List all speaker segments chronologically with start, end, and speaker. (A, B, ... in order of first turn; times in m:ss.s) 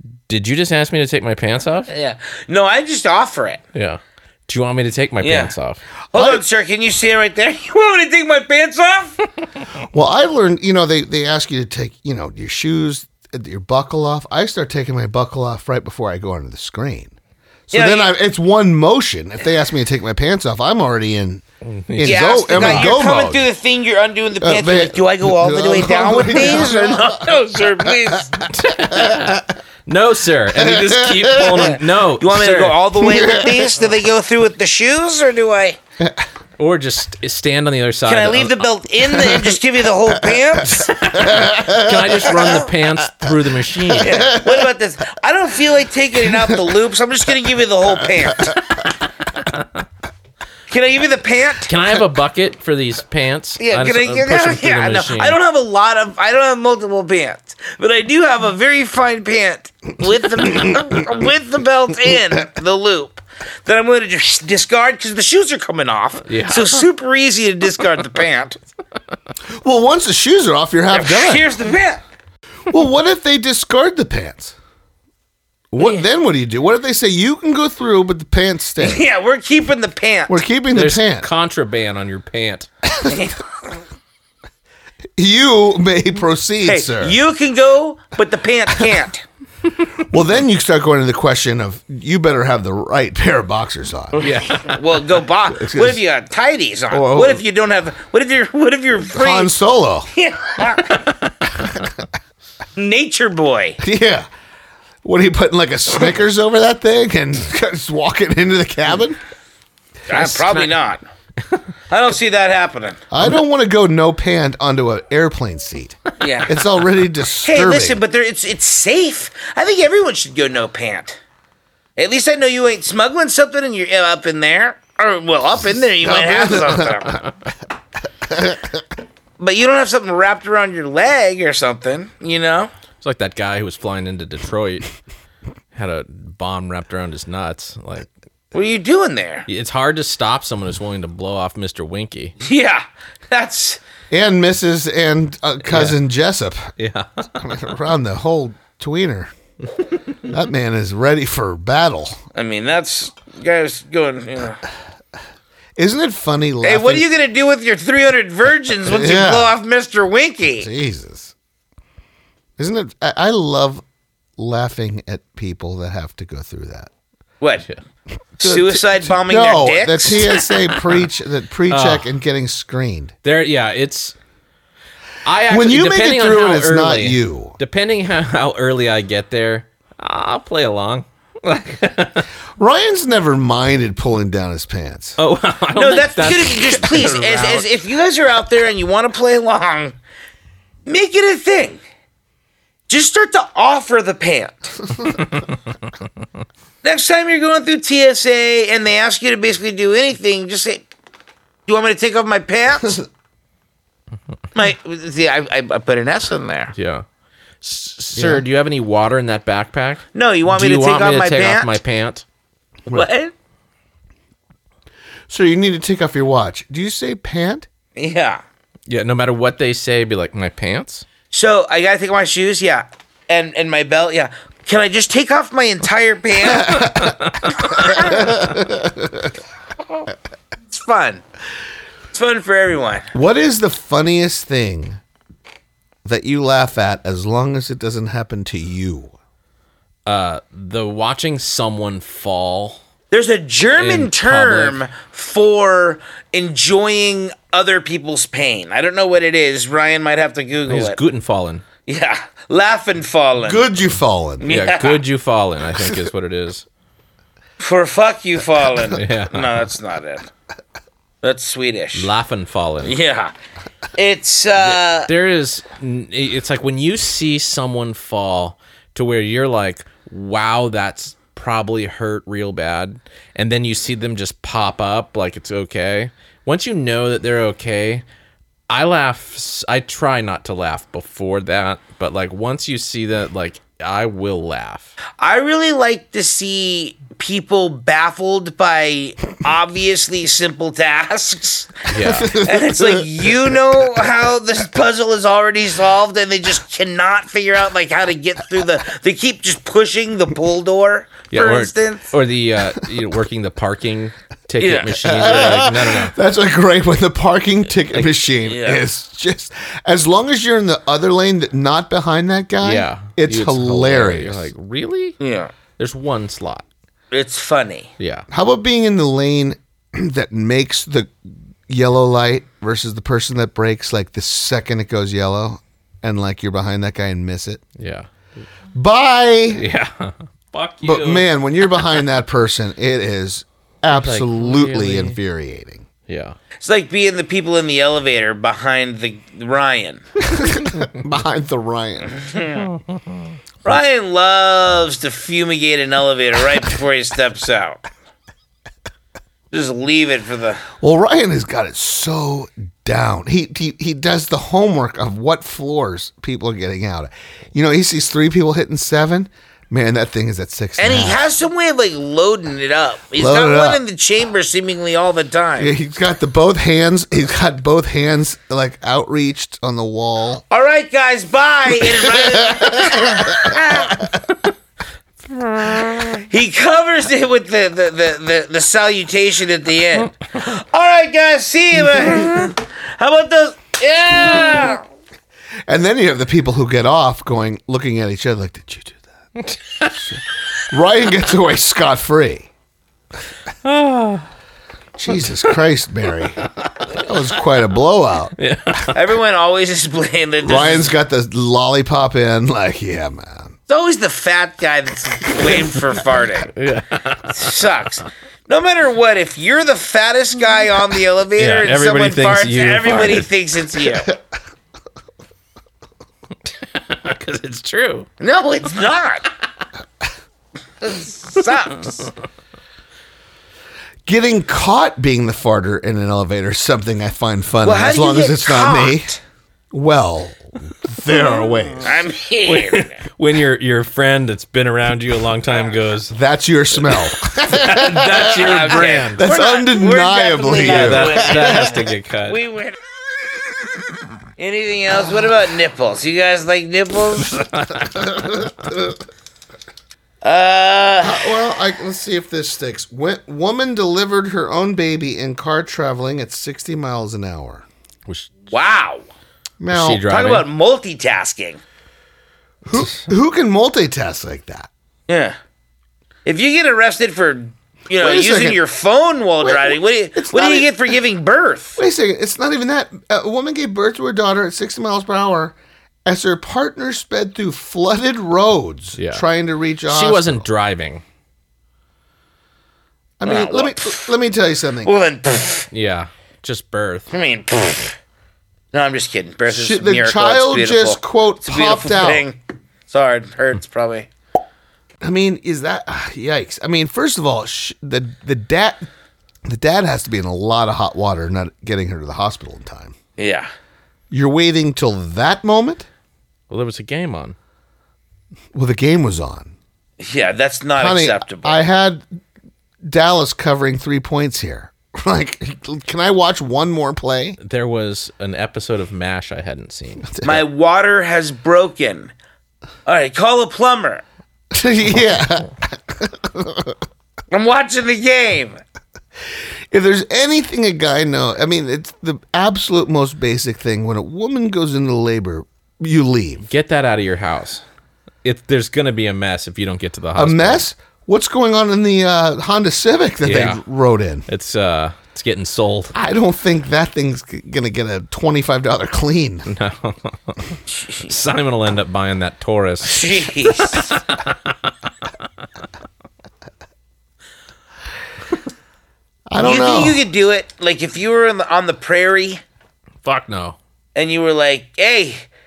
0:00.3-0:01.9 A
0:01.9-0:03.6 B
0:03.7-0:05.8 A
0:05.2-0:05.5 B
0:06.1-0:09.2 B
0:06.1-0:06.4 C
0:09.9-0:17.1 C
0:17.7-0:21.4 C
0:17.7-0:18.1 B
0:21.6-0:22.9 A
0:22.0-0:23.5 C
0:22.0-0:28.4 B
0:24.4-0:27.4 C
0:28.1-0:29.4 C
0:28.5-0:32.8 A
0:30.6-0:31.7 C
0:31.5-0:35.8 B
0:33.0-0:33.7 C
0:36.0-0:36.2 C
0:36.6-0:38.7 A
0:38.1-0:41.4 B
0:40.2-0:42.3 C
0:41.2-0:44.3 A
0:42.4-0:42.7 B
0:44.0-0:44.7 C
0:44.0-0:48.6 B
0:49.4-0:49.6 A
0:50.7-0:51.7 B
0:51.7-0:55.4 A
0:53.6-1:08.6 B
1:06.3-1:06.8 A
1:09.5-1:11.5 C
1:10.9-1:12.0 B
1:12.7-1:14.6 C
1:15.7-1:19.0 C
1:18.8-1:20.4 B
1:20.3-1:21.3 C
1:20.7-1:22.7 A
1:23.1-1:23.4 B
1:25.2-1:27.2 C
1:26.6-1:29.2 B
1:30.1-1:34.3 C
1:34.2-1:34.8 A
1:34.4-1:39.5 B
1:35.5-1:36.0 C
1:36.9-1:37.4 C
1:39.1-1:40.1 C
1:40.1-1:41.1 B
1:42.8-1:43.8 B
1:43.8-1:44.3 C
1:45.0-1:49.2 C
1:50.1-1:51.0 B
1:51.9-1:53.0 B
1:53.1-1:58.0 C
1:56.2-1:56.6 B
1:57.4-2:01.2 B
2:02.0-2:07.2 B
2:06.0-2:07.2 C
2:08.2-2:08.8 C
2:09.4-2:12.7 B
2:13.0-2:14.9 A
2:15.7-2:18.1 A
2:18.5-2:19.5 B
2:19.5-2:22.4 A
2:22.4-2:23.8 B
2:24.1-2:26.7 C
2:25.7-2:26.0 A
2:26.8-2:27.5 A
2:27.4-2:29.3 C
2:30.3-2:32.2 C
2:32.4-2:34.6 B
2:35.8-2:37.1 C
2:36.6-2:40.7 B
2:38.8-2:39.6 C
2:40.6-2:41.3 C
2:42.6-2:43.8 C
2:44.4-2:46.9 C
2:47.4-2:47.7 B
2:48.4-2:53.1 C
2:48.4-2:50.4 B
2:51.7-2:52.1 A
2:53.2-2:54.2 A
2:55.2-3:02.3 A
2:55.5-2:57.6 C
3:02.6-3:05.2 C
3:05.2-3:07.7 A
3:05.8-3:10.0 B
3:10.9-3:11.8 B
3:12.9-3:14.9 B
3:15.1-3:15.5 A
3:16.8-3:20.9 B
3:21.7-3:23.0 B
3:24.6-3:26.7 B
3:26.8-3:27.0 A
3:27.6-3:32.2 A
3:28.2-3:28.4 C
3:30.1-3:31.8 B
3:32.9-3:33.3 B
3:35.3-3:37.7 C
3:38.0-3:38.4 B
3:38.9-3:41.1 A
3:41.3-3:47.0 B
3:46.6-3:47.2 C
3:46.8-3:47.9 A
3:47.5-3:48.3 B
3:47.9-3:49.3 C
3:50.7-3:51.2 B
3:52.1-3:53.1 B
3:53.1-3:55.0 C
3:56.0-3:59.2 C
4:00.1-4:02.8 A
4:03.1-4:11.0 B
4:03.8-4:04.8 A
4:10.7-4:11.6 A
4:11.9-4:13.6 B
4:13.4-4:14.5 C
4:14.4-4:15.0 B
4:14.5-4:16.6 A
4:17.6-4:20.3 B
4:18.9-4:19.6 A
4:21.2-4:22.1 B
4:22.0-4:23.0 A
4:22.8-4:23.3 B
4:24.0-4:25.1 B
4:24.6-4:38.0 A
4:38.7-4:44.9 A
4:45.2-5:02.1 B
4:51.9-4:52.4 A
4:52.0-4:53.8 C
5:01.3-5:06.1 A
5:04.6-5:05.6 B
5:05.0-5:14.5 C
5:08.4-5:08.8 B
5:12.6-5:15.2 A
5:15.2-5:15.5 B
5:15.8-5:16.7 A
5:17.1-5:17.9 B
5:18.0-5:18.3 A
5:18.3-5:21.1 C
5:21.7-5:27.6 C
5:27.8-5:28.1 A
5:28.8-5:29.6 C
5:29.5-5:32.0 A
5:30.8-5:35.9 C
5:33.9-5:35.2 A
5:36.1-5:36.4 A
5:36.6-5:40.0 B
5:40.2-5:42.1 C
5:42.1-5:42.7 B
5:42.6-5:43.2 A
5:43.6-5:47.8 B
5:49.5-5:50.6 B
5:50.8-6:01.2 C
6:00.8-6:05.7 B
6:03.2-6:03.8 C
6:05.6-6:10.4 C
6:10.5-6:14.0 B
6:11.9-6:14.2 C
6:15.6-6:16.1 A
6:16.2-6:24.8 B
6:25.7-6:29.0 C
6:29.4-6:29.9 A
6:30.7-6:32.5 C
6:33.6-6:34.3 A
6:35.0-6:38.4 C
6:38.4-6:39.0 A
6:38.9-6:40.9 B
6:40.4-6:43.6 C
6:43.7-6:46.5 B
6:46.5-6:47.6 A
6:47.3-6:54.1 B
6:51.4-6:53.3 A
6:56.7-6:58.1 A
6:58.2-6:59.3 B
7:00.8-7:02.1 B
7:04.1-7:09.2 C
7:07.6-7:09.2 B
7:09.7-7:12.0 C
7:11.8-7:12.9 B
7:12.4-7:16.2 A
7:16.1-7:18.4 C
7:16.8-7:19.2 A
7:18.3-7:22.8 B
7:19.2-7:21.7 C
7:20.7-7:22.4 A
7:24.4-7:27.4 B
7:27.2-7:28.5 A
7:28.0-7:28.8 C
7:30.2-7:31.2 B
7:31.0-7:37.7 C
7:38.1-7:38.3 A
7:38.5-7:39.0 B
7:39.6-7:40.0 C
7:39.7-7:40.5 A
7:40.0-7:41.6 B
7:42.6-7:44.7 C
7:45.1-7:45.4 B
7:46.2-7:51.8 B
7:48.0-7:48.6 C
7:49.4-7:50.8 C
7:51.8-8:00.5 C
7:59.0-7:59.2 A
7:59.9-8:01.0 A
8:03.2-8:04.9 C
8:03.2-8:04.1 B
8:04.8-8:05.7 B
8:05.7-8:07.1 A
8:07.1-8:08.0 B
8:08.7-8:14.1 B
8:09.5-8:12.2 C
8:15.0-8:18.9 C
8:19.5-8:23.0 C
8:23.2-8:23.5 B
8:24.1-8:25.9 C
8:26.5-8:27.4 A
8:28.5-8:29.5 C
8:30.0-8:31.6 B
8:30.8-8:32.0 C
8:32.9-8:37.4 C
8:37.4-8:40.1 A
8:40.0-8:40.4 C
8:40.2-8:42.1 B
8:42.9-8:44.0 B
8:44.5-8:46.8 C
8:47.3-8:48.6 B
8:49.7-8:56.5 C
8:56.5-8:57.6 A
8:58.2-9:00.6 A
9:00.2-9:04.3 C
9:03.2-9:03.6 A
9:04.3-9:06.0 A
9:06.0-9:09.5 C
9:09.5-9:14.7 A
9:10.8-9:11.1 B
9:12.8-9:13.9 B
9:19.3-9:20.0 C
9:19.4-9:22.4 B
9:23.0-9:23.6 A
9:24.0-9:25.3 B